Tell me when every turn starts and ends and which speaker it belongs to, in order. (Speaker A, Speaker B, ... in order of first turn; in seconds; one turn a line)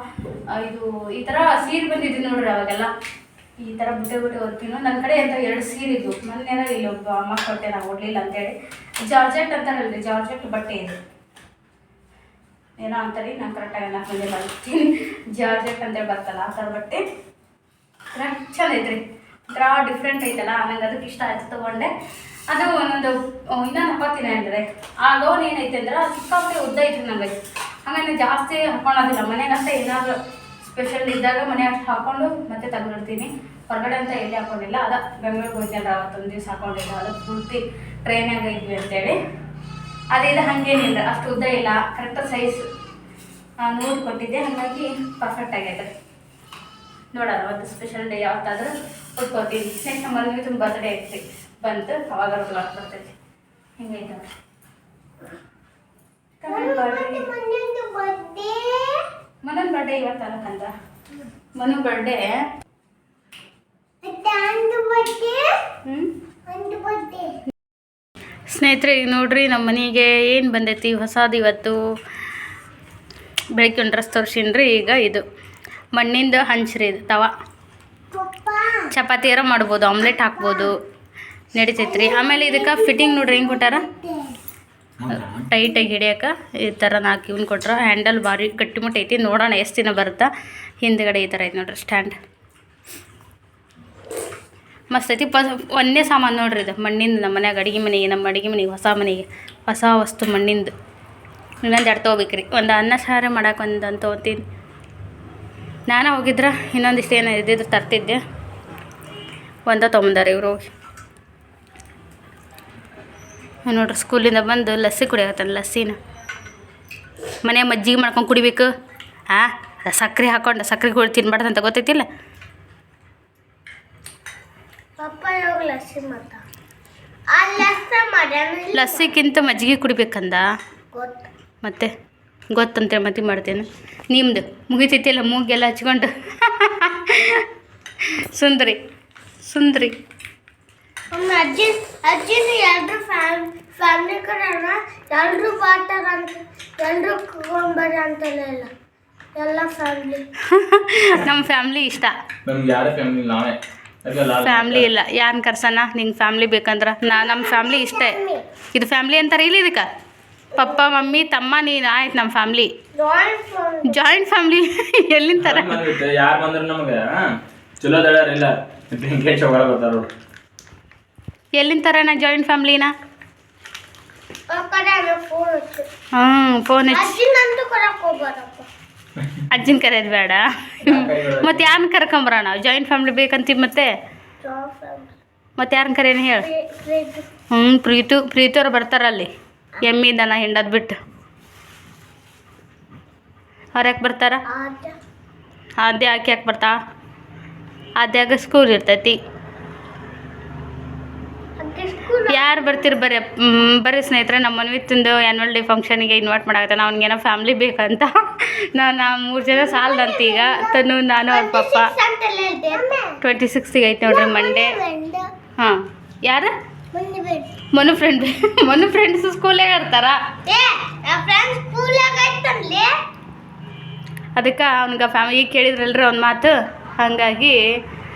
Speaker A: 0.5-2.9
Speaker A: 3.6-8.5
Speaker A: 9.0-11.0
Speaker A: 12.8-17.0
Speaker A: 18.1-21.9
Speaker A: 22.5-27.3
Speaker A: 27.9-39.2
Speaker A: 40.1-42.6
Speaker A: 43.6-45.9
Speaker A: 47.1-53.1
Speaker A: 53.8-54.3
Speaker A: 56.4-57.3
Speaker B: 56.5-59.1
Speaker A: 59.4-60.7
Speaker A: 61.6-62.4
Speaker B: 64.0-65.6
Speaker B: 66.5-67.4
Speaker A: 68.5-71.8
Speaker A: 73.5-75.2
Speaker A: 75.9-77.3
Speaker B: 78.1-78.9
Speaker A: 78.9-80.8
Speaker B: 80.3-80.7
Speaker A: 81.5-83.8
Speaker B: 81.8-84.4
Speaker C: 85.0-85.5
Speaker A: 85.1-90.3
Speaker A: 90.8-92.1
Speaker A: 94.9-100.7
Speaker A: 101.6-104.4
Speaker A: 105.9-108.2
Speaker A: 109.7-110.7
Speaker A: 113.7-116.0
Speaker A: 117.4-118.7
Speaker A: 119.3-122.0
Speaker B: 125.0-126.4
Speaker B: 127.3-129.3
Speaker A: 128.7-130.4
Speaker B: 130.9-131.3
Speaker A: 131.6-131.9
Speaker A: 132.5-137.5
Speaker A: 138.3-138.8
Speaker A: 139.4-139.9
Speaker B: 141.1-148.7
Speaker B: 149.3-150.2
Speaker A: 150.5-152.2
Speaker C: 152.4-154.9
Speaker A: 154.4-158.2
Speaker B: 157.1-158.4
Speaker A: 158.7-159.9
Speaker B: 160.5-160.8
Speaker A: 160.5-162.7
Speaker B: 162.9-164.0
Speaker A: 163.8-165.9
Speaker C: 165.4-167.3
Speaker C: 167.8-170.1
Speaker A: 171.5-172.9
Speaker B: 174.5-175.9
Speaker A: 176.1-177.2
Speaker B: 176.9-178.7
Speaker A: 179.5-183.9
Speaker C: 180.8-181.6
Speaker B: 184.4-185.1
Speaker A: 185.6-186.5
Speaker B: 186.4-187.3
Speaker A: 187.5-189.3
Speaker A: 189.8-191.0
Speaker A: 193.8-194.4
Speaker B: 194.5-194.9
Speaker A: 195.8-196.8
Speaker A: 198.0-199.2
Speaker B: 201.6-202.9
Speaker A: 202.3-211.9
Speaker B: 209.4-213.2
Speaker A: 213.2-214.8
Speaker B: 214.0-215.3
Speaker A: 215.6-216.5
Speaker B: 216.9-217.6
Speaker A: 217.7-220.2
Speaker B: 220.4-222.9
Speaker A: 224.3-227.6